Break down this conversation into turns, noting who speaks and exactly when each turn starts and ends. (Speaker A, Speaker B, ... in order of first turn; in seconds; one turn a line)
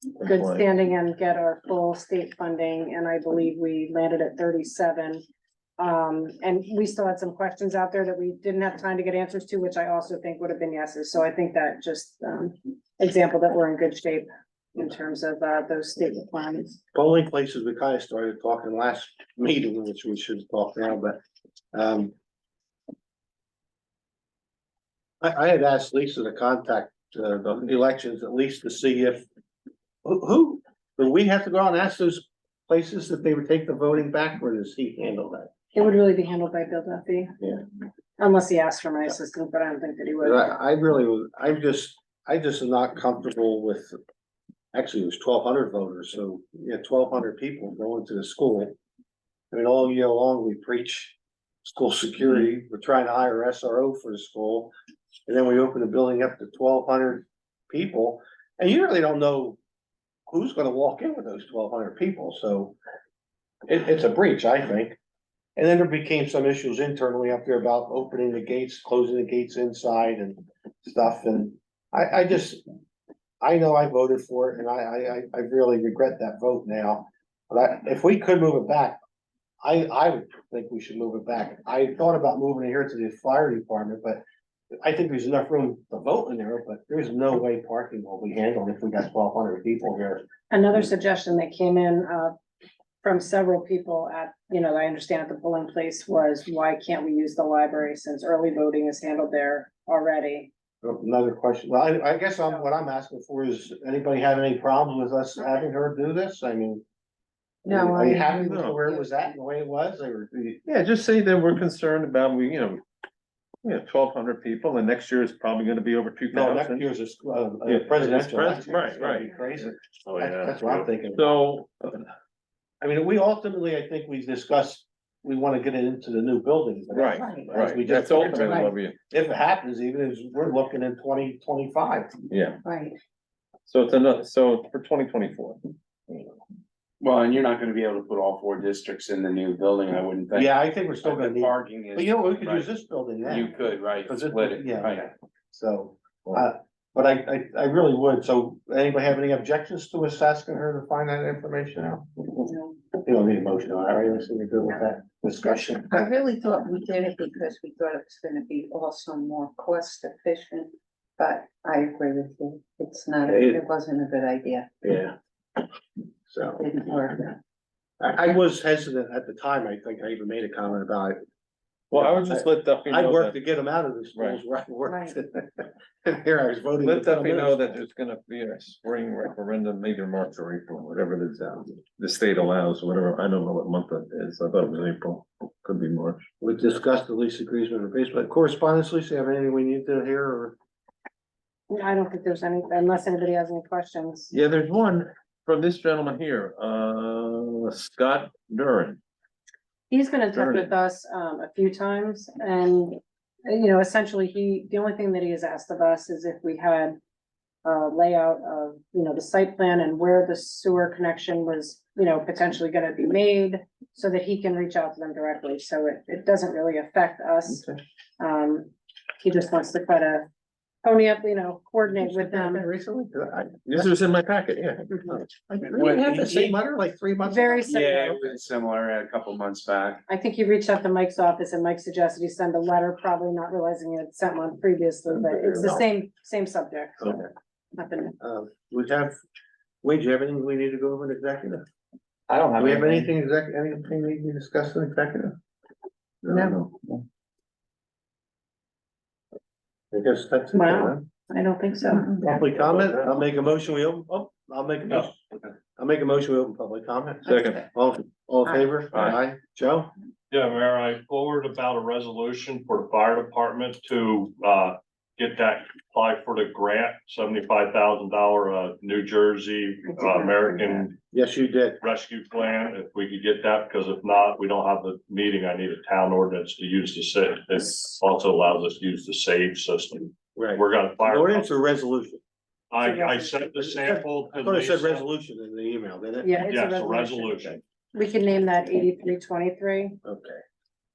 Speaker A: 0.2-0.7
Speaker B: 0.2-5.2
Speaker B: 5.8-16.8
Speaker C: 16.9-21.2
Speaker C: 21.7-22.1
Speaker C: 25.2-29.3
Speaker C: 30.0-35.5
Speaker B: 35.7-37.4
Speaker B: 38.2-40.5
Speaker C: 40.2-44.0
Speaker C: 44.7-48.8
Speaker C: 49.5-54.7
Speaker C: 55.3-59.6
Speaker C: 60.3-62.8
Speaker C: 63.7-65.0
Speaker C: 65.6-72.6
Speaker C: 73.4-79.0
Speaker C: 79.6-84.2
Speaker C: 84.8-90.3
Speaker B: 90.5-92.3
Speaker B: 93.0-100.5
Speaker C: 100.8-106.8
Speaker D: 107.7-109.1
Speaker C: 107.7-110.6
Speaker A: 108.5-108.8
Speaker A: 110.7-112.8
Speaker A: 113.6-116.8
Speaker C: 116.3-121.3
Speaker A: 117.6-119.3
Speaker E: 120.0-120.9
Speaker A: 121.1-122.1
Speaker C: 122.8-132.1
Speaker A: 126.9-129.0
Speaker D: 127.2-127.6
Speaker A: 132.3-132.6
Speaker D: 132.6-133.0
Speaker A: 133.7-136.3
Speaker F: 137.0-142.7
Speaker C: 140.3-152.1
Speaker F: 143.2-145.1
Speaker D: 152.4-152.8
Speaker C: 153.0-156.1
Speaker D: 155.9-164.7
Speaker C: 163.3-163.6
Speaker C: 164.8-165.2
Speaker C: 166.3-166.7
Speaker D: 166.6-167.4
Speaker C: 168.0-171.2
Speaker A: 171.9-173.4
Speaker C: 171.9-177.8
Speaker A: 174.2-174.4
Speaker B: 174.9-175.2
Speaker A: 176.8-186.2
Speaker C: 186.4-190.6
Speaker B: 191.7-194.3
Speaker A: 194.3-199.0
Speaker B: 199.9-207.0
Speaker A: 200.3-200.7
Speaker B: 207.6-217.6
Speaker B: 218.2-220.3
Speaker B: 220.8-222.7
Speaker C: 221.9-223.9
Speaker A: 223.7-225.5
Speaker C: 225.1-227.7
Speaker F: 225.7-226.6
Speaker B: 227.3-228.2
Speaker F: 227.7-230.0
Speaker B: 230.1-237.2
Speaker A: 235.2-235.8
Speaker C: 237.0-237.3
Speaker B: 237.8-238.2
Speaker C: 238.2-239.1
Speaker C: 239.8-241.7
Speaker A: 242.3-243.1
Speaker C: 242.6-245.4
Speaker A: 246.2-247.0
Speaker D: 246.3-246.7
Speaker C: 249.9-251.1
Speaker B: 250.5-252.1
Speaker D: 251.9-252.3
Speaker C: 252.2-259.9
Speaker A: 252.3-253.2
Speaker A: 257.3-257.6
Speaker D: 257.3-257.6
Speaker E: 260.3-271.0
Speaker C: 271.1-271.8
Speaker E: 271.8-281.5
Speaker C: 280.4-282.2
Speaker E: 282.7-285.1
Speaker B: 282.8-283.4
Speaker C: 283.7-286.4
Speaker B: 286.2-290.0
Speaker E: 286.4-287.6
Speaker C: 290.0-290.4